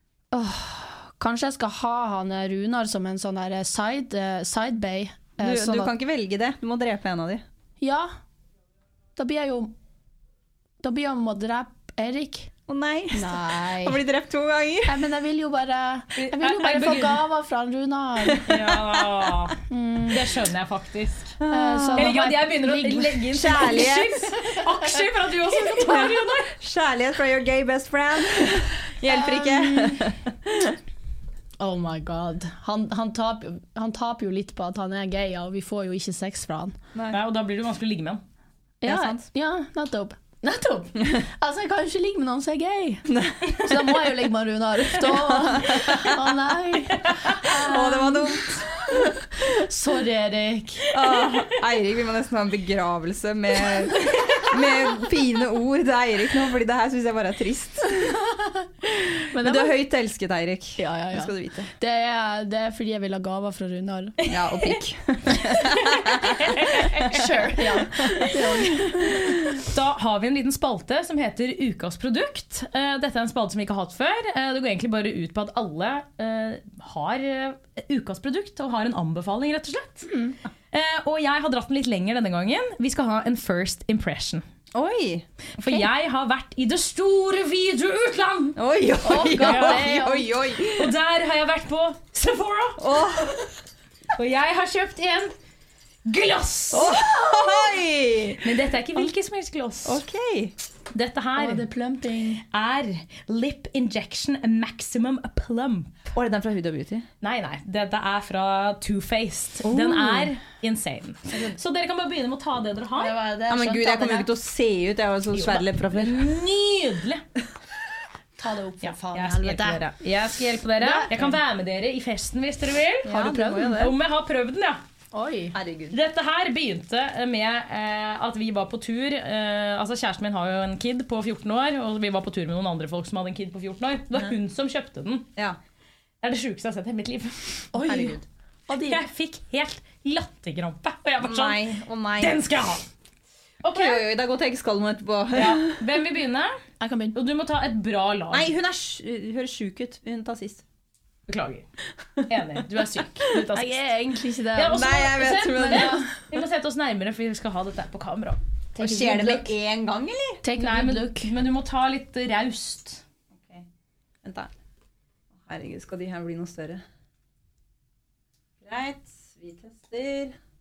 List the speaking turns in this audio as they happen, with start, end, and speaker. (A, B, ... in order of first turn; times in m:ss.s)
0:00.3-0:06.0 A
0:05.4-0:07.4 B
0:07.8-0:08.1 A
0:09.2-0:09.7 A
0:10.8-0:12.5 A
0:12.7-0:15.0 B
0:13.1-0:14.0 A
0:14.8-0:18.5 A
0:16.2-0:17.2 C
0:18.3-0:19.0 B
0:18.4-0:19.6 C
0:19.7-0:20.3 A
0:20.1-0:21.4 C
0:21.4-0:22.2 B
0:21.5-0:23.9 A
0:22.0-0:26.5 C
0:23.3-0:24.3 B
0:25.8-0:30.7 B
0:29.1-0:30.0 A
0:31.6-0:36.8 A
0:37.1-0:38.2 C
0:38.8-0:50.9 A
0:38.8-0:39.2 B
0:43.1-0:43.9 B
0:45.0-0:46.2 B
0:47.4-0:49.1 B
0:50.9-0:58.2 B
0:58.8-1:01.7 B
0:59.3-0:59.8 A
1:00.8-1:04.2 A
1:04.3-1:07.1 B
1:06.2-1:08.3 C
1:07.2-1:09.4 A
1:09.6-1:20.1 C
1:20.1-1:20.4 A
1:20.7-1:24.4 C
1:24.7-1:25.9 B
1:25.6-1:28.6 C
1:28.6-1:30.9 B
1:29.0-1:30.3 A
1:29.4-1:30.0 C
1:30.7-1:32.8 C
1:32.8-1:33.5 B
1:34.2-1:35.3 C
1:36.1-1:37.0 C
1:36.7-1:38.5 B
1:38.4-1:40.0 C
1:39.8-1:40.6 B
1:40.9-1:41.7 C
1:41.4-1:42.4 A
1:42.5-1:46.1 C
1:46.1-1:47.1 B
1:47.2-1:53.2 C
1:49.6-1:50.3 B
1:53.0-1:54.3 A
1:53.5-1:56.2 B
1:55.3-1:57.2 C
1:58.4-1:59.8 A
1:58.8-2:04.8 C
2:00.8-2:01.3 A
2:03.0-2:04.0 B
2:03.1-2:03.7 A
2:05.1-2:05.6 A
2:05.5-2:06.0 B
2:05.9-2:15.3 C
2:16.2-2:17.7 C
2:17.7-2:19.0 A
2:17.8-2:18.2 B
2:18.8-2:21.7 C
2:21.2-2:22.4 B
2:22.2-2:22.8 C
2:23.6-2:24.0 C
2:23.7-2:25.8 B
2:25.4-2:26.5 C
2:26.8-2:27.2 A
2:27.1-2:28.5 C
2:28.3-2:30.6 B
2:31.3-2:31.7 C
2:32.3-2:33.9 C
2:33.5-2:36.2 A
2:34.6-2:38.4 C
2:34.7-2:36.0 B
2:38.8-2:39.4 A
2:38.8-2:40.4 B
2:40.4-2:41.3 A
2:40.6-2:43.0 C
2:43.3-2:43.7 B
2:44.2-2:44.5 B
2:45.4-2:46.8 B
2:48.6-2:50.4 B